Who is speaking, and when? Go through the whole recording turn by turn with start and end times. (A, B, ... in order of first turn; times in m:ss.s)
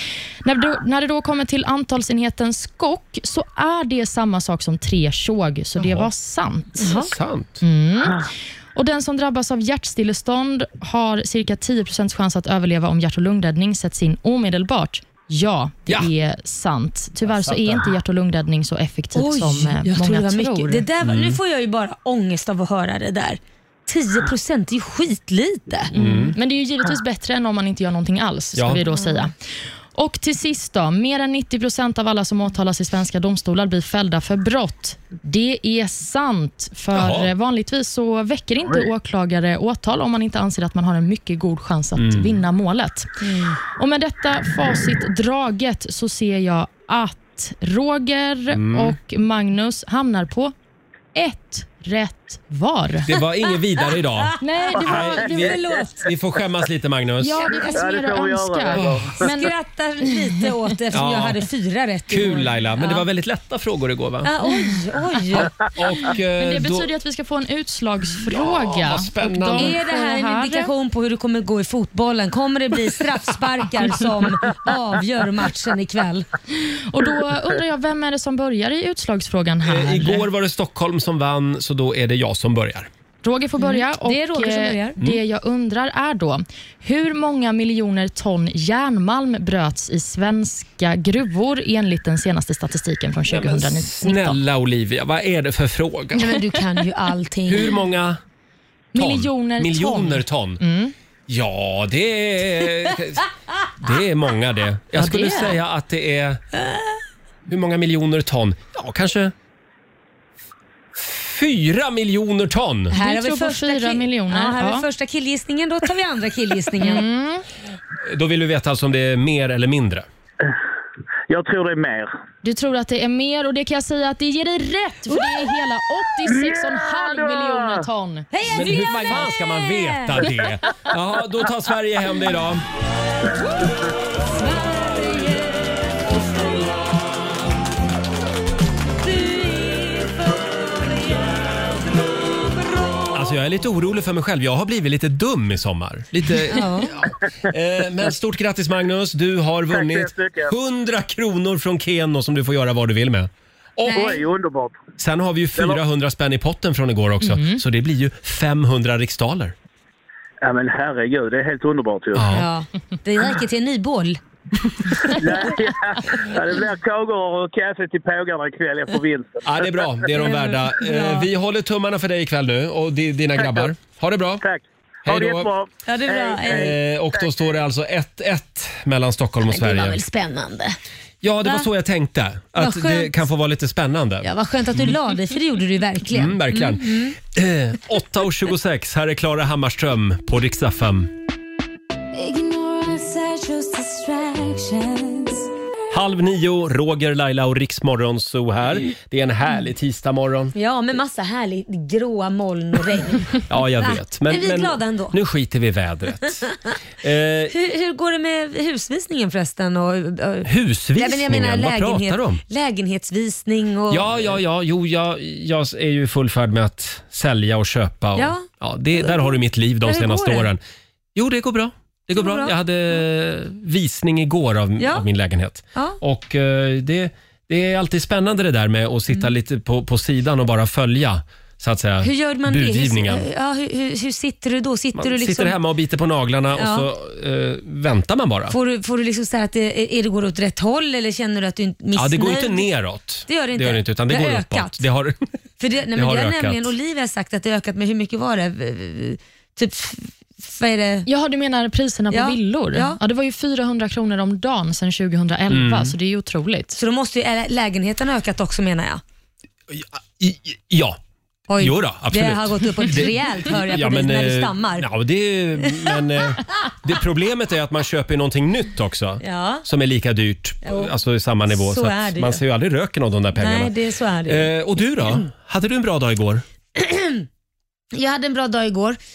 0:00.4-0:06.9 A
0:05.8-0:06.1 B
0:06.8-0:07.1 C
0:06.9-0:07.6 B
0:07.6-0:20.8 A
0:17.3-0:17.9 B
0:19.2-0:25.9 C
0:21.0-0:21.4 B
0:25.9-0:29.3 A
0:26.0-0:26.4 B
0:28.6-0:28.8 B
0:30.0-0:43.1 A
0:36.9-0:37.3 B
0:42.0-0:42.4 B
0:43.2-0:43.6 C
0:43.8-0:50.5 A
0:48.5-0:49.0 B
0:51.2-0:53.1 A
0:53.1-0:57.5 B
0:54.4-0:55.6 A
0:54.8-0:56.1 C
0:57.2-0:59.5 A
0:57.5-0:57.8 C
0:57.7-0:59.2 D
0:58.8-0:59.1 B
0:59.2-1:03.0 C
1:00.9-1:01.4 B
1:02.1-1:04.3 B
1:04.2-1:05.5 C
1:05.7-1:06.9 B
1:06.4-1:10.7 A
1:08.3-1:09.7 B
1:09.6-1:16.3 C
1:16.7-1:20.3 A
1:19.6-1:22.9 B
1:23.2-1:34.4 A
1:23.6-1:25.0 C
1:33.3-1:36.4 B
1:36.1-1:37.8 C
1:37.5-1:38.2 B
1:38.9-1:40.9 A
1:39.0-1:40.6 B
1:41.3-1:43.2 B
1:43.8-1:46.4 B
1:45.0-1:45.5 A
1:47.5-1:49.3 B
1:51.0-1:52.9 B
1:52.9-1:57.1 C
1:52.9-1:54.8 A
1:56.8-1:57.4 A
1:58.0-2:00.0 B
2:01.3-2:02.1 D
2:02.4-2:08.3 A
2:05.1-2:05.4 C
2:06.3-2:07.8 D
2:08.3-2:10.4 C
2:08.5-2:12.6 B
2:14.3-2:17.0 C
2:19.0-2:23.2 C
2:23.1-2:34.1 B
2:26.5-2:26.9 C
2:29.7-2:30.5 D
2:33.9-2:34.8 D
2:33.9-2:34.2 C
2:35.0-2:39.6 B
2:37.2-2:37.6 A
2:40.4-2:42.3 D
2:42.1-2:42.5 B
2:42.3-2:44.2 C
2:45.2-2:49.9 D
2:49.4-2:54.4 B
2:50.1-2:51.3 C
2:53.4-2:53.7 D
2:54.4-2:57.2 D
2:55.0-2:55.5 B
2:55.9-2:56.8 C
2:56.4-3:00.0 B
2:59.5-3:00.8 C
3:01.2-3:04.9 B
3:02.6-3:03.2 C
3:04.2-3:07.2 C
3:06.1-3:11.1 B
3:12.1-3:15.5 C
3:15.9-3:20.5 B
3:20.6-3:25.2 C
3:23.5-3:26.4 B
3:27.0-3:27.6 B
3:27.5-3:34.3 C
3:30.4-3:32.4 B
3:33.9-3:40.6 B
3:38.2-3:38.5 C
3:39.0-3:40.5 C
3:41.2-3:53.3 B
3:42.1-3:42.6 C
3:44.8-3:45.0 C
3:52.0-3:55.6 C
3:55.0-3:58.6 B
3:56.6-3:56.9 C
3:58.5-4:02.7 C
4:02.0-4:05.3 B
4:03.3-4:04.8 C
4:05.6-4:11.1 C
4:05.9-4:06.7 B
4:11.1-4:16.8 A
4:12.1-4:13.0 C
4:15.5-4:15.9 B
4:16.8-4:19.0 C
4:19.7-4:21.0 B
4:21.5-4:24.9 C
4:21.6-4:33.7 B
4:29.2-4:29.6 C
4:30.6-4:30.9 C
4:31.5-4:32.4 C
4:33.4-4:34.5 C
4:34.3-4:36.4 B
4:36.8-4:37.3 C
4:37.9-4:39.0 C